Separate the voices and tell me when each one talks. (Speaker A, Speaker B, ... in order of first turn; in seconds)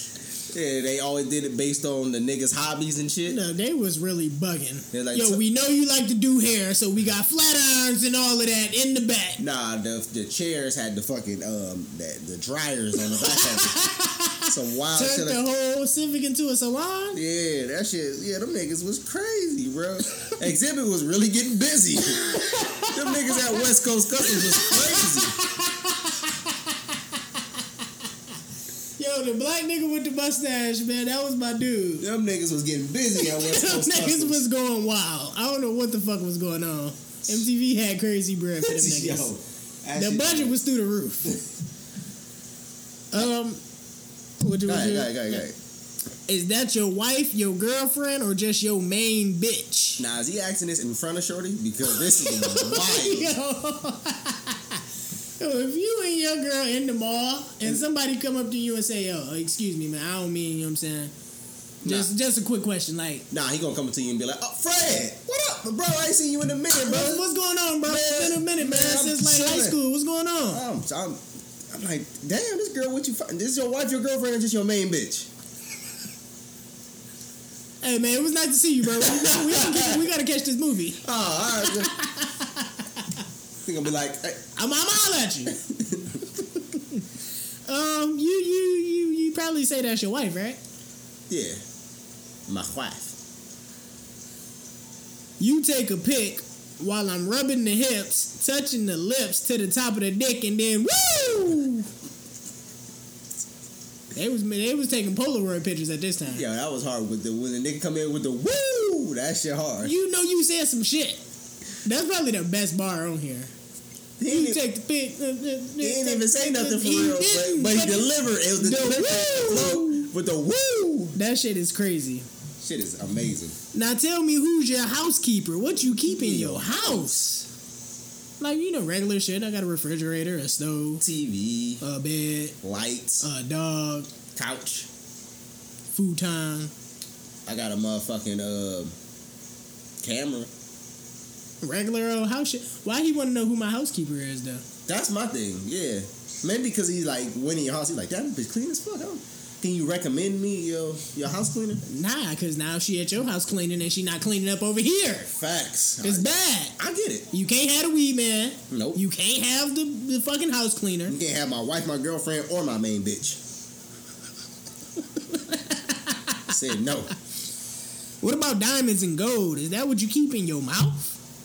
Speaker A: 0.5-3.4, 4.9-5.4, 9.4-13.8, 14.4-15.4, 17.1-25.4, 32.0-34.4, 38.6-40.5, 44.6-45.5, 50.0-53.4, 61.8-62.1, 63.3-67.3, 67.8-69.8, 70.5-75.3, 78.9-80.0, 81.0-81.9, 83.7-84.4, 85.5-86.3, 91.3-91.6, 92.5-93.2, 106.3-109.9, 114.2-114.6, 115.8-121.2, 122.6-123.6, 126.0-127.2, 131.0-131.8, 132.6-133.3, 134.3-134.9, 137.5-138.9, 140.0-140.5, 144.9-151.8, 155.3-157.3, 158.7-159.0, 161.1-163.4, 166.5-167.1
Speaker B: 3.3-9.4, 13.1-17.2, 22.1-23.7, 24.2-27.6, 29.0-32.1, 33.2-39.3, 40.0-41.4, 43.1-43.6, 44.4-45.4, 46.3-50.0, 51.9-54.8, 55.4-61.1, 61.8-63.3, 66.8-70.7, 77.8-81.0, 81.6-83.1, 84.6-85.6, 86.7-87.0, 87.7-90.6, 95.4-101.9, 104.1-106.5, 109.8-111.2, 111.8-113.5, 114.2-120.1, 121.2-122.3, 123.7-127.5, 128.4-131.0, 131.8-132.6, 133.2-134.1, 135.9-136.7, 141.6-144.7, 151.9-155.3, 156.0-156.8, 157.3-161.2, 165.3-166.5, 168.2-171.2